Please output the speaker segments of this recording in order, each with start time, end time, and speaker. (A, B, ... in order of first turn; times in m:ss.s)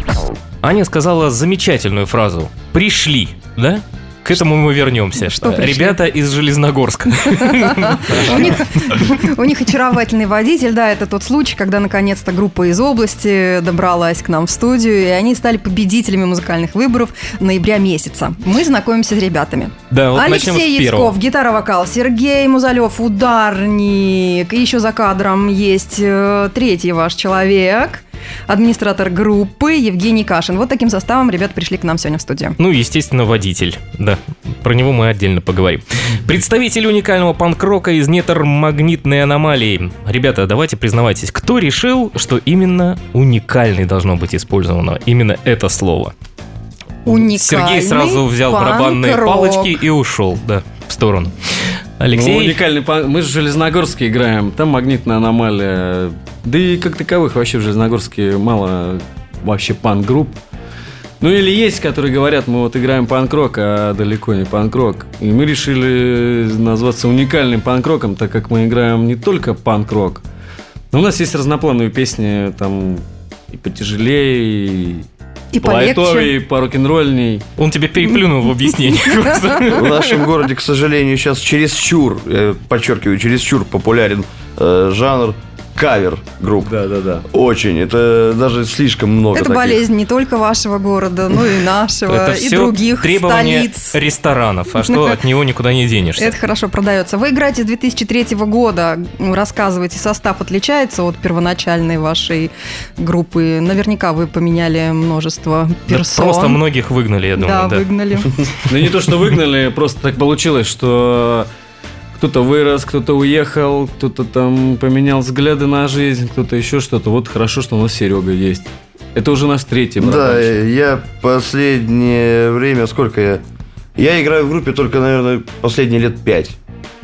0:00.6-0:09.0 A
0:05.3-0:06.0 B
0:07.4-0:32.6 B
0:19.9-0:21.2 A
0:32.6-0:46.1 A
0:47.0-0:49.8 B
0:47.1-0:51.5 A
0:52.0-0:52.6 A
0:52.1-1:00.4 C
1:01.2-1:10.2 C
1:10.9-1:15.1 C
1:15.5-1:16.3 B
1:15.6-1:17.5 C
1:17.6-1:20.2 A
1:19.7-1:26.8 D
1:26.7-1:27.2 C
1:27.3-1:29.8 D
1:29.4-1:34.0 B
1:32.1-1:36.3 A
1:34.9-1:35.2 B
1:36.2-1:46.6 B
1:45.9-1:47.9 A
1:47.4-1:48.5 B
1:48.7-1:51.5 C
1:52.2-2:00.5 C
2:00.0-2:03.4 D
2:04.0-2:06.6 D